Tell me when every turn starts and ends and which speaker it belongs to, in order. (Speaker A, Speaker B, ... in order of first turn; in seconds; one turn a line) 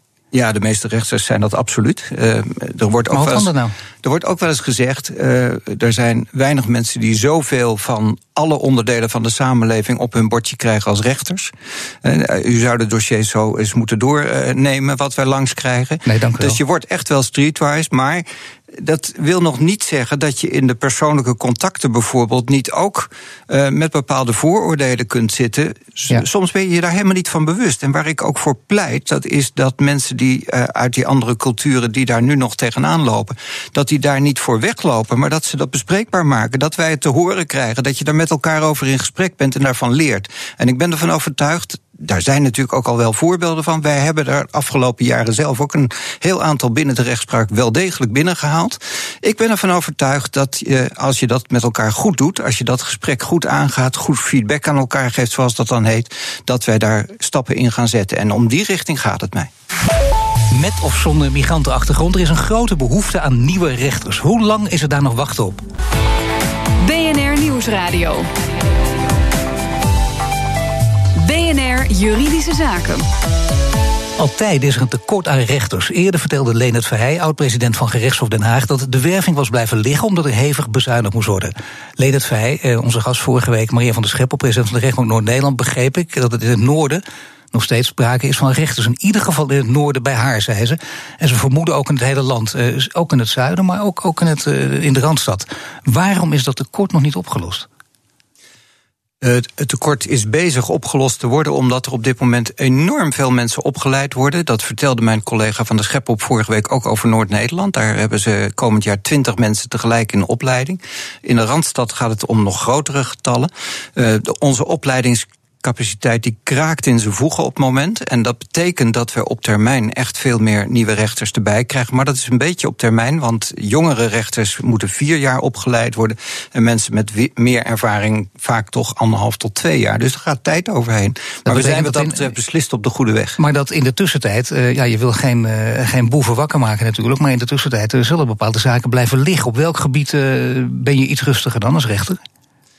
Speaker A: 0.3-3.5
Speaker B: 3.1-3.7
Speaker A: 4.0-59.5
Speaker B: 16.0-16.6
Speaker B: 60.5-65.6
Speaker C: 66.8-68.3
Speaker C: 71.1-73.0
Speaker B: 74.2-97.7
Speaker A: 99.2-133.4
Speaker B: 131.4-132.2
Speaker B: 133.4-142.2